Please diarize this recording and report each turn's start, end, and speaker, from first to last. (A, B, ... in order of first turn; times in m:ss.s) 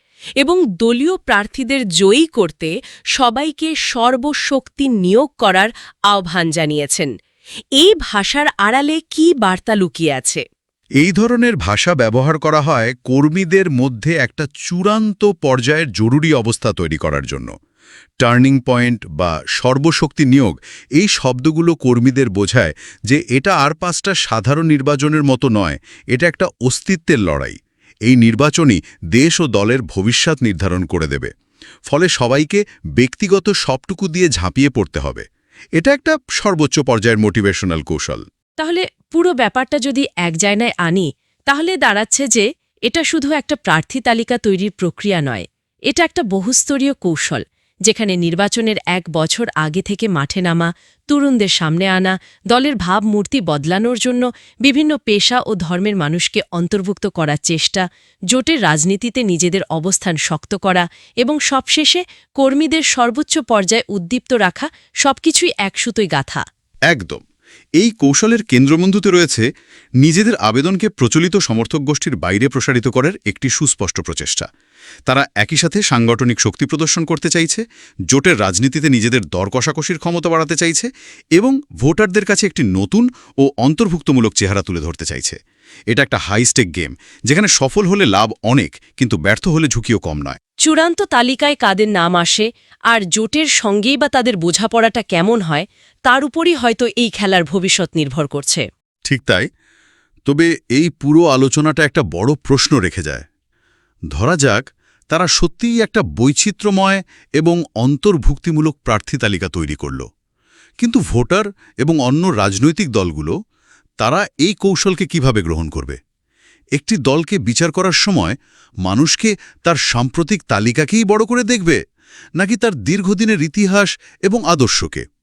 0:00.4-0:07.1 A
0:07.8-0:10.4 A
0:11.0-0:17.5 B
0:18.2-0:31.3 B
0:31.9-0:35.2 B
0:35.8-0:38.2 B
0:38.6-1:06.4 A
1:06.9-1:07.2 B
1:07.8-1:09.4 B
1:10.0-1:14.5 B
1:15.1-1:25.4 B
1:25.9-1:30.4 B
1:30.6-1:38.6 A
1:39.0-1:39.5 B
1:40.2-1:43.2 B
1:44.1-1:50.0 B
1:50.8-1:53.3 B
1:54.0-1:56.0 B
1:56.8-2:01.8 B
2:02.4-2:05.0 B